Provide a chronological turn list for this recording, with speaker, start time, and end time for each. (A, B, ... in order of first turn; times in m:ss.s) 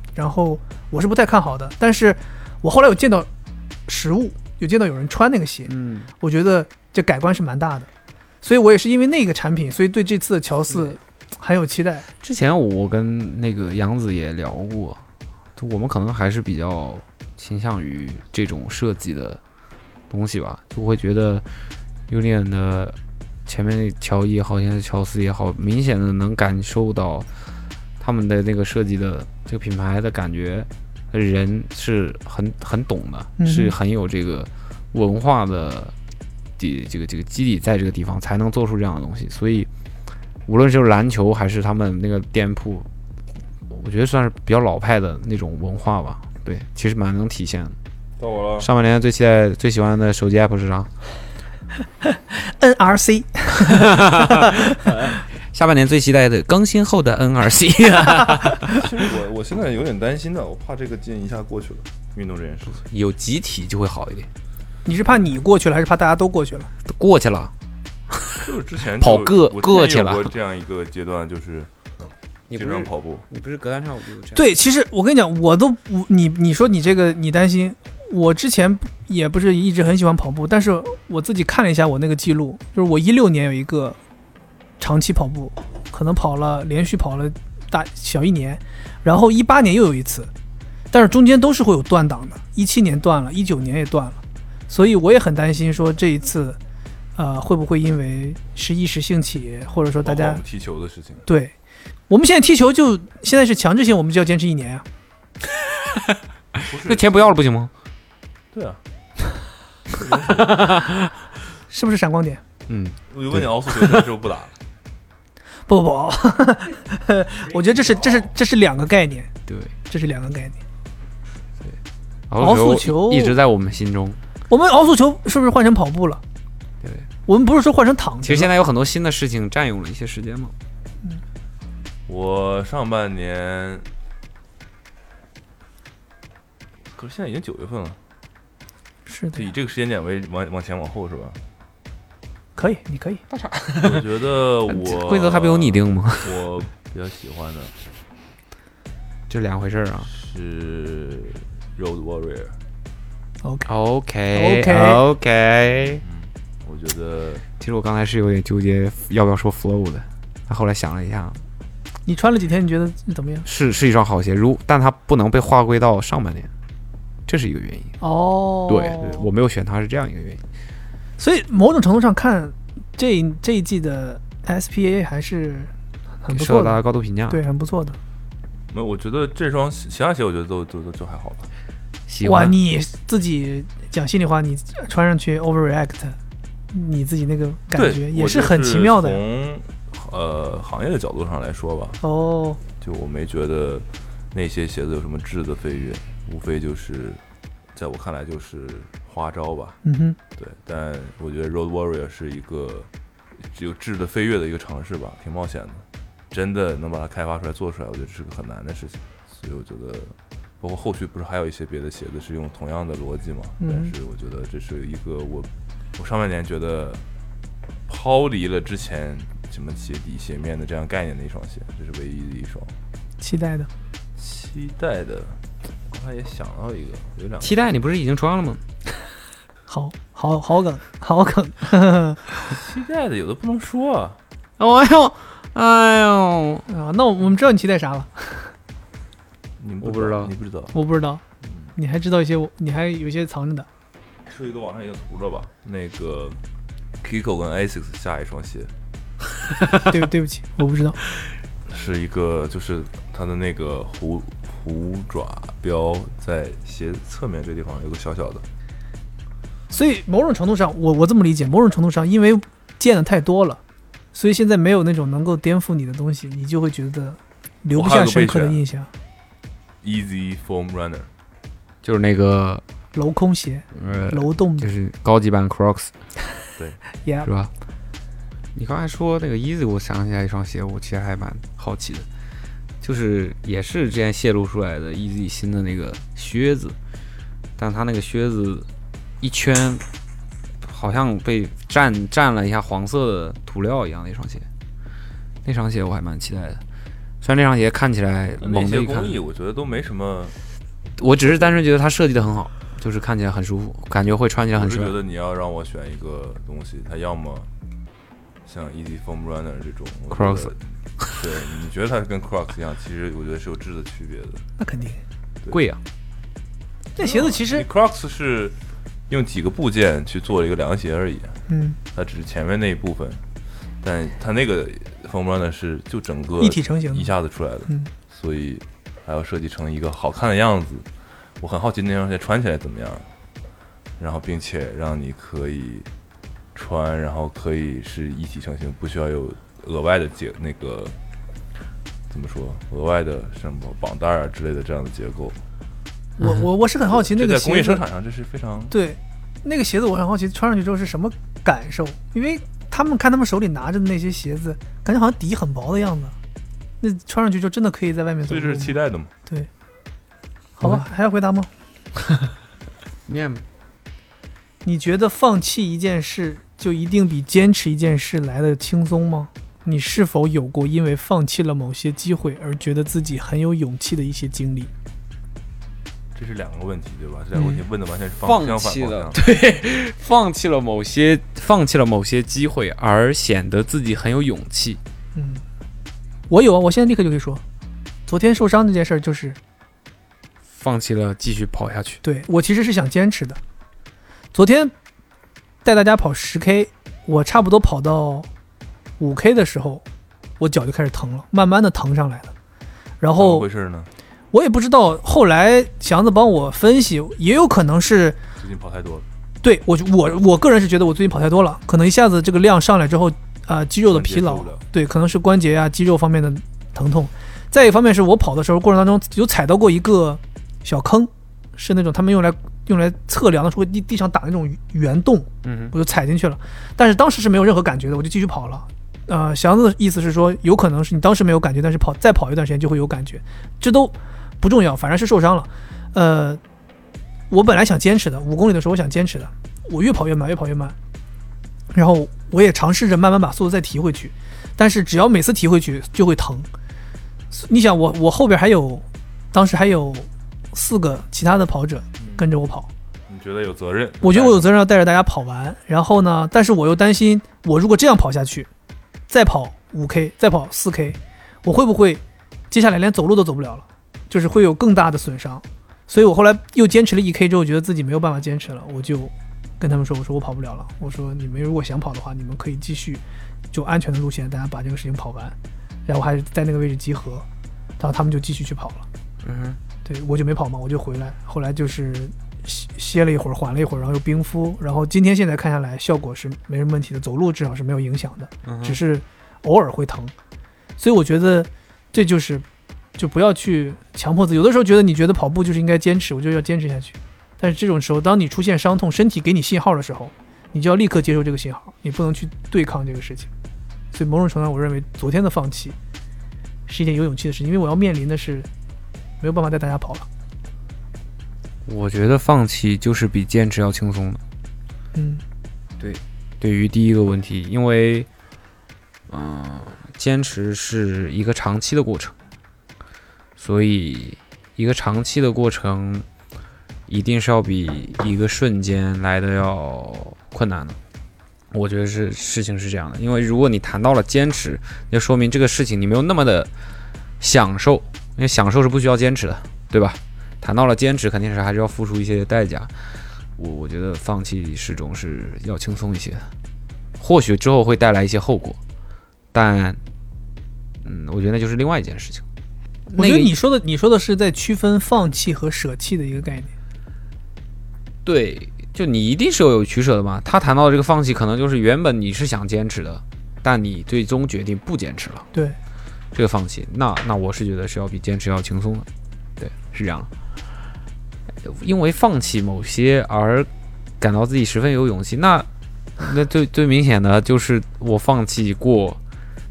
0:00.2-0:03.3 A
0:03.9-0:07.9 A
0:05.7-0:06.1 B
0:08.4-0:12.1 A
0:12.2-0:15.0 B
0:15.6-0:19.4 B
0:20.1-0:21.4 B
0:22.1-0:27.3 B
0:28.0-0:35.9 B
0:33.4-0:33.8 A
0:36.6-0:39.7 B
0:40.5-0:42.9 B
0:43.7-0:47.8 B
0:48.2-0:48.7 C
0:48.6-0:50.9 B
0:52.1-0:55.1 A
0:53.7-0:58.9 B
0:58.7-1:02.8 C
1:02.9-1:04.3 B
1:04.8-1:06.7 A
1:06.9-1:07.5 B
1:08.1-1:08.5 B
1:08.4-1:11.7 C
1:09.0-1:10.3 B
1:12.5-1:14.5 B
1:12.5-1:13.3 C
1:14.4-1:24.0 A
1:24.8-1:30.3 A
1:30.9-1:36.6 A
1:37.2-1:40.4 A
1:40.0-1:41.2 C
1:41.3-1:41.6 A
1:42.1-1:44.8 A
1:45.9-1:47.7 B
1:46.7-1:47.4 C
1:48.5-1:48.8 C
1:49.9-1:50.8 C
1:50.5-1:51.0 B
1:51.7-1:52.4 A
1:52.7-1:54.1 B
1:53.1-1:54.6 C
1:55.7-1:59.3 A
1:59.5-1:59.7 B
1:59.9-2:00.6 A
2:02.3-2:04.2 B
2:02.4-2:03.4 A
2:04.5-2:06.2 A
2:06.8-2:07.1 B
2:07.3-2:08.5 A
2:08.2-2:10.5 B
2:12.1-2:13.9 C
2:16.9-2:18.0 C
2:19.1-2:19.5 A
2:19.3-2:21.4 C
2:22.6-2:23.2 A
2:23.3-2:24.1 B
2:23.8-2:27.7 C
2:24.7-2:26.4 B
2:29.3-2:30.1 B
2:30.0-2:32.6 C
2:33.4-2:33.7 A
2:33.7-2:36.0 B
2:34.3-2:35.0 A
2:36.0-2:37.4 C
2:37.6-2:41.4 B
2:42.1-2:43.5 A
2:43.4-2:46.5 B
2:47.3-2:48.0 B
2:48.0-2:49.3 A
2:48.7-2:50.4 B
2:51.2-2:55.7 A
2:56.2-2:58.0 A
2:56.3-2:57.4 B
2:58.7-3:01.5 C
3:02.1-3:02.6 B
3:02.2-3:06.2 A
3:06.7-3:09.2 A
3:07.7-3:12.0 C
3:12.0-3:12.6 A
3:12.8-3:17.2 C
3:17.8-3:19.8 C
3:19.8-3:20.2 A
3:20.4-3:37.0 C
3:33.6-3:33.9 A
3:37.9-3:42.8 C
3:43.2-3:43.7 A
3:44.2-3:47.6 C
3:47.4-3:48.6 B
3:49.7-3:52.2 A
3:52.5-3:54.2 C
3:54.6-3:56.7 B
3:56.7-3:58.5 A
3:59.6-4:00.7 C
3:59.8-4:00.3 B
4:00.7-4:01.2 A
4:01.4-4:01.7 C
4:01.8-4:03.7 A
4:04.2-4:06.4 C
4:07.0-4:08.7 C
4:09.8-4:11.0 A
4:11.7-4:18.4 C
4:19.7-4:23.6 A
4:24.1-4:28.9 A
4:27.7-4:28.6 C
4:29.8-4:31.1 C
4:31.8-4:32.6 B
4:32.9-4:34.7 A
4:33.7-4:35.9 B
4:37.0-4:37.3 A
4:37.2-4:37.5 B
4:38.6-4:42.1 B
4:42.8-4:46.8 B
4:47.6-4:48.7 B
4:49.2-4:49.8 B
4:50.6-4:54.5 B
4:55.4-4:56.6 B
4:57.2-4:59.2 B
4:58.4-5:00.4 C
5:01.0-5:05.0 B
5:01.3-5:01.6 C
5:04.5-5:07.5 C
5:08.4-5:10.6 C
5:10.1-5:11.2 B
5:11.2-5:14.4 C
5:14.6-5:15.0 A
5:15.5-5:15.8 B
5:17.0-5:17.7 A
5:17.0-5:18.6 C
5:19.1-5:21.4 C
5:21.5-5:21.8 A
5:21.9-5:23.2 C
5:23.8-5:30.9 C
5:26.4-5:27.1 A
5:31.4-5:33.1 C
5:34.0-5:35.9 C
5:36.5-5:41.0 C
5:42.1-5:45.4 C
5:46.2-5:47.8 A
5:46.9-5:48.7 C
5:48.7-5:56.2 A
5:56.8-5:58.8 A
5:58.2-5:59.1 C
6:00.6-6:01.5 A
6:03.1-6:03.4 B
6:04.6-6:14.7 A
6:16.2-6:19.2 C
6:18.2-6:24.8 B
6:25.2-6:25.4 A
6:26.3-6:27.4 A
6:28.1-6:29.4 A
6:30.5-6:32.0 B
6:32.0-6:33.4 A
6:34.3-6:34.7 A
6:35.6-6:38.3 A
6:39.0-6:39.8 A
6:40.4-6:42.3 A
6:43.0-6:43.5 A
6:43.2-6:43.9 C
6:44.3-6:48.2 A
6:48.4-6:49.0 C
6:49.4-7:16.4 A
6:53.9-6:54.6 C
7:05.4-7:05.7 B
7:17.3-7:20.8 A
7:21.7-7:26.5 A
7:27.3-7:32.7 A
7:33.1-7:34.5 C
7:34.0-7:38.5 A
7:39.1-7:55.4 A
7:55.9-7:57.2 A
7:57.8-7:58.9 A
7:59.2-7:59.6 B
7:59.8-8:10.1 A
8:08.4-8:08.8 B
8:10.8-8:12.4 A
8:13.0-8:23.3 A
8:23.9-8:25.8 A
8:26.7-8:28.5 A
8:29.2-8:30.1 A
8:31.7-8:34.2 B
8:34.9-8:35.2 A
8:35.8-8:38.1 B
8:39.1-8:42.2 B
8:43.4-8:46.1 B
8:46.9-8:50.8 B
8:51.5-8:56.5 B
8:57.2-9:06.3 B
9:07.0-9:08.6 B
9:09.3-9:09.8 B
9:10.8-9:12.2 B
9:12.9-9:13.3 B
9:13.0-9:16.5 A
9:18.0-9:25.3 B
9:26.1-9:28.9 B
9:29.4-9:30.1 B
9:31.4-9:33.5 B
9:34.0-9:35.5 B
9:36.0-9:39.0 B